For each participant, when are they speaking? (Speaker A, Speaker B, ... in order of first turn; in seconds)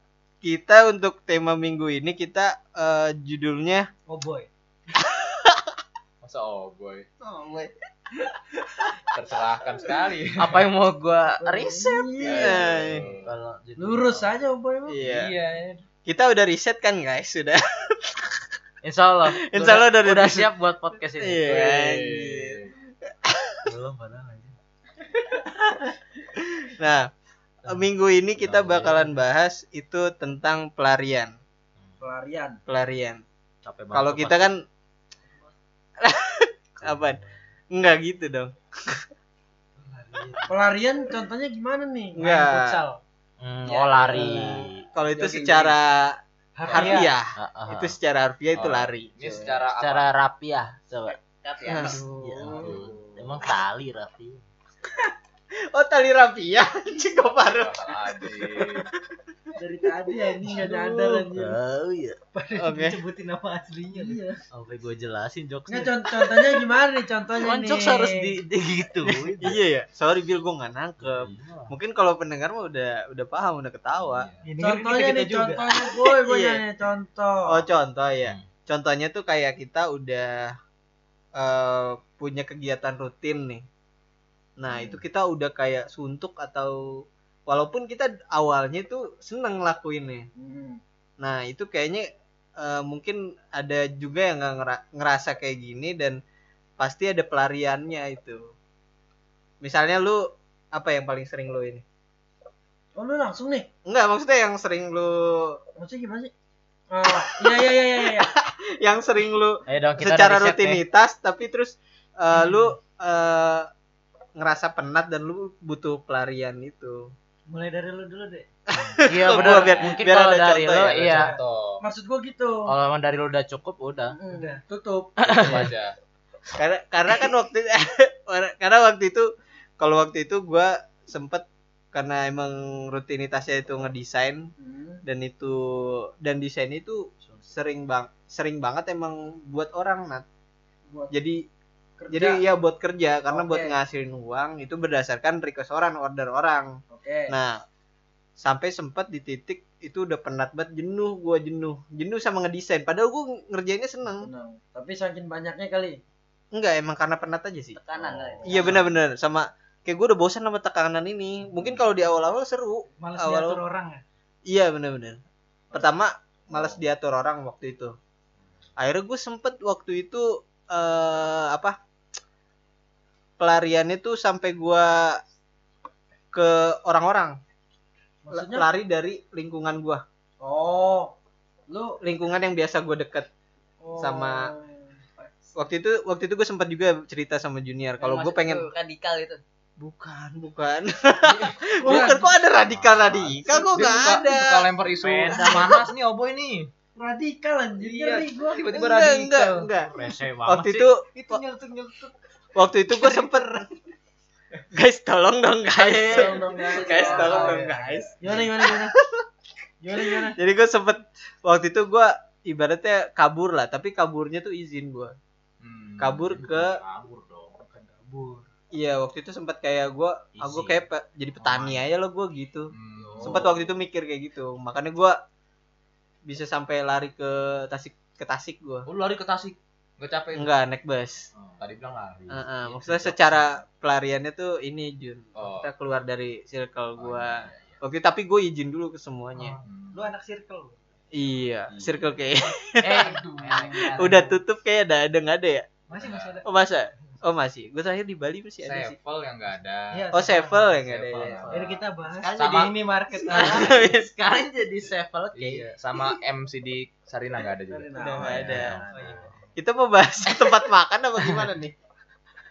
Speaker A: 0.4-3.9, 5.0-5.7, 12.2-13.0, 14.9-15.3, 16.1-18.5, 19.4-20.5, 21.2-22.6, 23.2-23.6, 26.6-27.1, 27.7-31.3, 32.7-33.2, 33.9-34.6, 36.0-37.2, 37.7-39.1, 42.2-42.8, 44.1-46.2, 46.7-49.5, 51.6-52.8, 55.7-57.7, 58.2-58.9, 60.5-60.9, 62.6-63.0, 69.3-74.3, 76.3-76.6, 77.5-80.5, 81.4-83.7, 84.6-86.8, 87.5-90.3, 91.2-92.1, 92.6-96.2, 96.8-98.5, 99.6-101.8, 103.9-105.6, 107.1-113.7, 114.4-117.1, 118.8-121.2, 126.5-129.3, 129.8-134.5, 135.1-140.2, 141.1-141.4, 142.1-146.7, 147.3-147.6, 148.4-154.3, 156.5-157.8, 158.4-163.6, 164.5-165.2, 165.7-167.9, 168.8-171.8, 173.4-175.2, 176.3-177.3, 178.3-180.0, 182.0-183.3, 184.0-184.4, 185.6-188.7, 189.8-194.7, 195.4-195.7, 198.7-199.9, 200.5-201.4, 202.6-203.7, 204.8-209.2, 209.9-215.1, 216.0-216.8, 218.8-222.7, 223.2-225.2, 226.3-228.8, 230.4-231.2, 232.3-239.6, 241.1-243.2, 243.9-245.7, 246.4-249.0, 250.1-251.7, 253.3-254.1, 258.2-258.9, 259.6-261.7
Speaker B: 4.1-4.5, 39.8-40.5, 42.2-43.0, 46.6-47.2, 62.3-64.2, 74.4-75.7, 117.5-118.5, 119.4-119.9, 121.0-121.4, 124.3-124.6, 163.0-164.0, 201.0-202.1, 202.9-203.7, 205.8-208.1, 217.7-218.5, 223.0-223.5, 239.4-240.8, 245.9-246.5, 249.9-250.8, 251.5-253.8, 258.3-259.4
Speaker C: 6.2-7.1, 9.1-10.6, 12.2-13.3, 15.0-15.8, 21.5-22.7, 48.5-50.1, 52.5-53.0, 57.3-58.8, 74.0-74.5, 120.8-121.8, 125.4-126.0, 192.7-196.7, 197.8-199.7, 215.6-216.4, 221.4-221.8, 222.7-223.5, 228.9-230.5, 231.6-233.4, 235.4-235.7, 237.0-237.6, 239.6-240.0, 241.7-242.0, 242.9-244.0, 245.9-246.4, 248.6-250.1, 250.9-251.7, 252.4-252.7, 255.4-258.6
Speaker D: 10.4-12.2, 13.2-14.4, 18.8-21.4, 23.6-24.5, 28.4-29.1, 33.6-34.5, 36.8-37.4, 43.4-44.9, 47.4-47.9, 49.8-51.2, 53.2-54.4, 61.4-62.2, 64.5-65.9, 67.4-69.6, 71.0-71.7, 109.7-110.8, 118.8-121.3, 122.7-124.2, 125.2-125.7, 195.0-195.8, 199.9-200.9, 216.3-217.7, 220.4-220.8, 242.8-244.2, 251.2-252.7, 253.3-255.7, 258.2-259.2
Speaker E: 11.4-12.5, 13.8-15.0, 32.0-32.6, 40.5-42.2, 51.8-52.7, 59.6-61.6, 63.9-64.4, 65.7-68.3, 74.6-77.5, 90.4-90.8, 103.0-103.7, 105.8-106.3, 106.9-108.3, 121.8-122.7, 124.2-125.2, 134.6-135.0, 142.0-142.4, 143.3-143.8, 146.9-147.3, 154.2-156.0, 178.2-178.7, 180.4-181.2, 181.7-182.0, 183.8-185.3, 191.8-192.3, 197.0-198.6, 206.1-207.5, 208.2-208.9, 209.8-210.4, 257.7-258.7
Speaker F: 43.7-45.8, 51.1-52.0, 157.8-158.8, 188.0-189.4, 207.0-207.4